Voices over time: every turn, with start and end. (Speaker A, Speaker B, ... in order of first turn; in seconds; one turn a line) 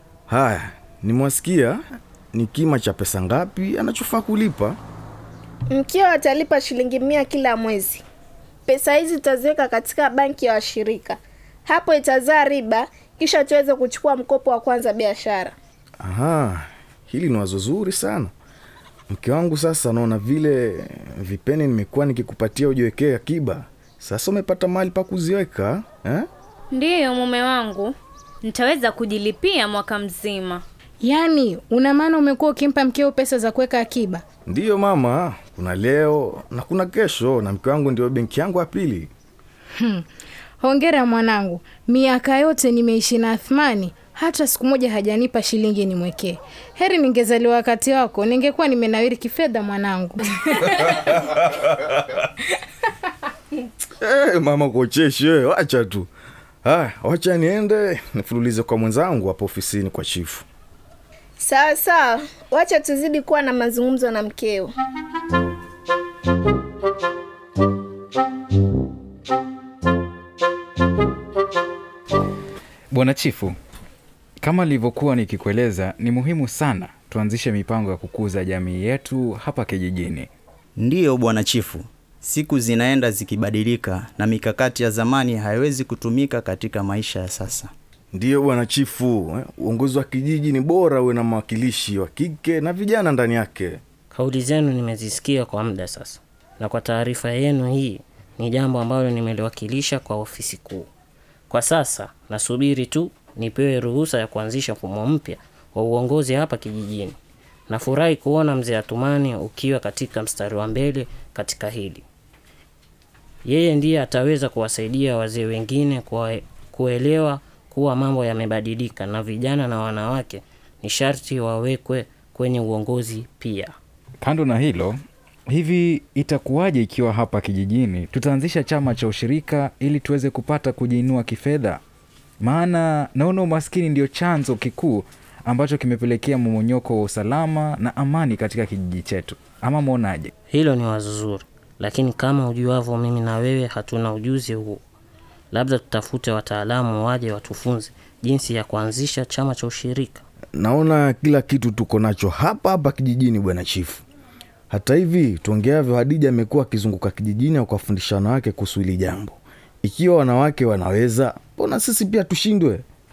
Speaker A: 0.3-1.8
Speaker A: 2.3-4.8
Speaker B: 5.7-8.0
Speaker B: 8.7-15.6
Speaker A: 16.0-18.3
Speaker A: 19.1-26.3
Speaker C: 26.7-30.6
Speaker D: 31.0-34.2
Speaker A: 34.5-39.1
Speaker D: 39.8-40.0
Speaker D: 40.6-50.9
Speaker A: 50.9-51.4
Speaker A: 54.0-56.1
Speaker A: 56.6-60.5
Speaker B: 61.4-64.7
Speaker E: 72.9-73.5
Speaker E: 74.4-80.3
Speaker F: 80.8-87.7
Speaker A: 88.1-93.8
Speaker G: 94.1-100.9
Speaker G: 101.5-107.2
Speaker G: 107.7-112.0
Speaker G: 113.5-123.8
Speaker E: 124.2-131.8
Speaker E: 132.4-140.3
Speaker G: 140.5-144.8
Speaker G: 145.5-150.2
Speaker A: 150.6-154.0
Speaker A: 154.7-162.8